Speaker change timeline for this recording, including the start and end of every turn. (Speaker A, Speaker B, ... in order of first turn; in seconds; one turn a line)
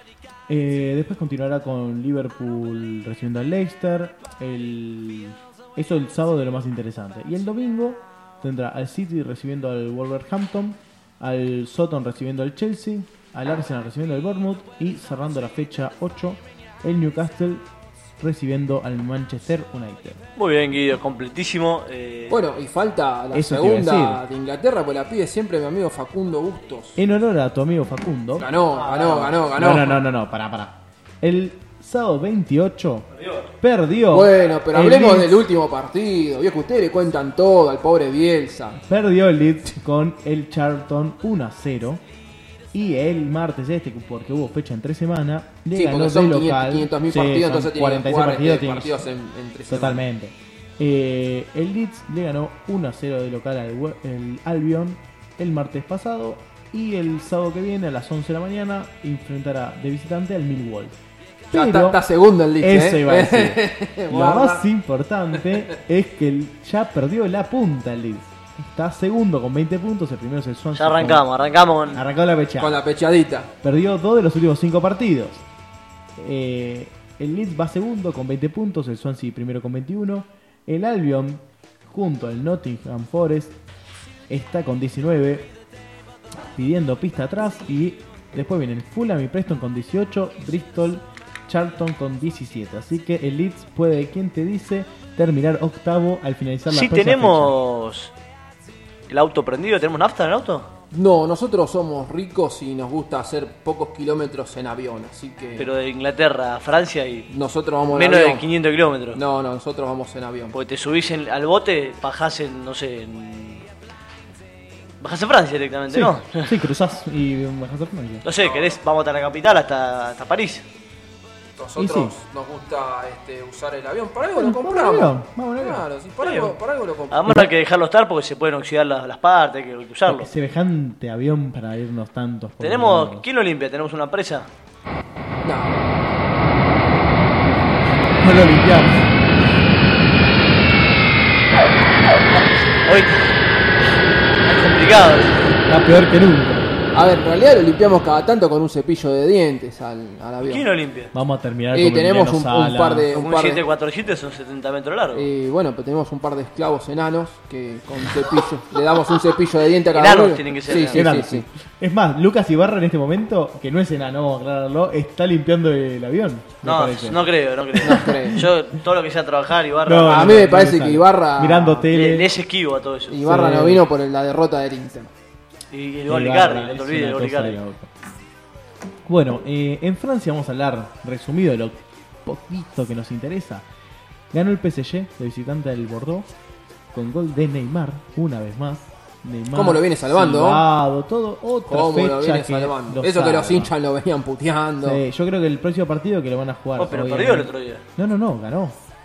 Speaker A: 0.5-17.7
Speaker A: 18.2-20.2
Speaker B: 20.4-22.4
Speaker C: 22.3-27.0
Speaker A: 23.3-24.2
Speaker A: 27.0-28.5
Speaker C: 28.4-30.0
Speaker B: 28.8-29.4
Speaker A: 29.3-35.4
Speaker B: 33.1-33.5
Speaker C: 34.1-38.8
Speaker A: 38.8-42.0
Speaker A: 42.7-49.0
Speaker C: 45.7-50.0
Speaker A: 49.7-61.0
Speaker A: 61.5-62.0
Speaker C: 61.5-64.7
Speaker A: 62.6-71.3
Speaker B: 70.8-72.0
Speaker A: 71.9-72.8
Speaker C: 72.6-73.5
Speaker A: 73.6-75.5
Speaker A: 76.2-83.6
Speaker A: 84.3-85.5
Speaker A: 86.5-97.6
Speaker B: 96.7-98.1
Speaker B: 99.1-100.7
Speaker C: 100.9-105.7
Speaker B: 105.6-107.3
Speaker C: 107.3-108.5
Speaker B: 107.9-109.2
Speaker C: 109.1-110.6
Speaker B: 110.5-113.7
Speaker B: 115.0-116.6
Speaker A: 115.9-118.2
Speaker B: 118.2-120.7
Speaker C: 118.4-118.8
Speaker C: 121.6-127.3
Speaker A: 121.8-122.1
Speaker A: 124.4-125.8
Speaker B: 126.2-126.5
Speaker B: 127.1-130.3
Speaker A: 130.1-133.3
Speaker B: 132.6-134.5
Speaker C: 135.4-135.9
Speaker A: 138.2-139.1
Speaker B: 142.8-145.6
Speaker A: 145.7-146.7
Speaker C: 146.9-150.7
Speaker B: 150.4-151.1
Speaker A: 151.1-153.1
Speaker C: 151.7-153.6
Speaker B: 153.1-155.3
Speaker C: 155.1-161.5
Speaker B: 159.9-161.1
Speaker A: 160.9-168.4
Speaker B: 166.6-170.5
Speaker C: 167.8-168.5
Speaker A: 169.9-172.3
Speaker C: 170.1-171.9
Speaker B: 171.9-173.2
Speaker C: 173.1-175.1
Speaker A: 173.2-173.8
Speaker B: 175.7-177.6
Speaker A: 176.1-177.9
Speaker A: 179.1-183.7
Speaker A: 184.3-186.3
Speaker A: 186.9-193.7
Speaker C: 189.5-190.7
Speaker C: 191.7-195.0
Speaker A: 194.8-198.8
Speaker B: 196.8-197.8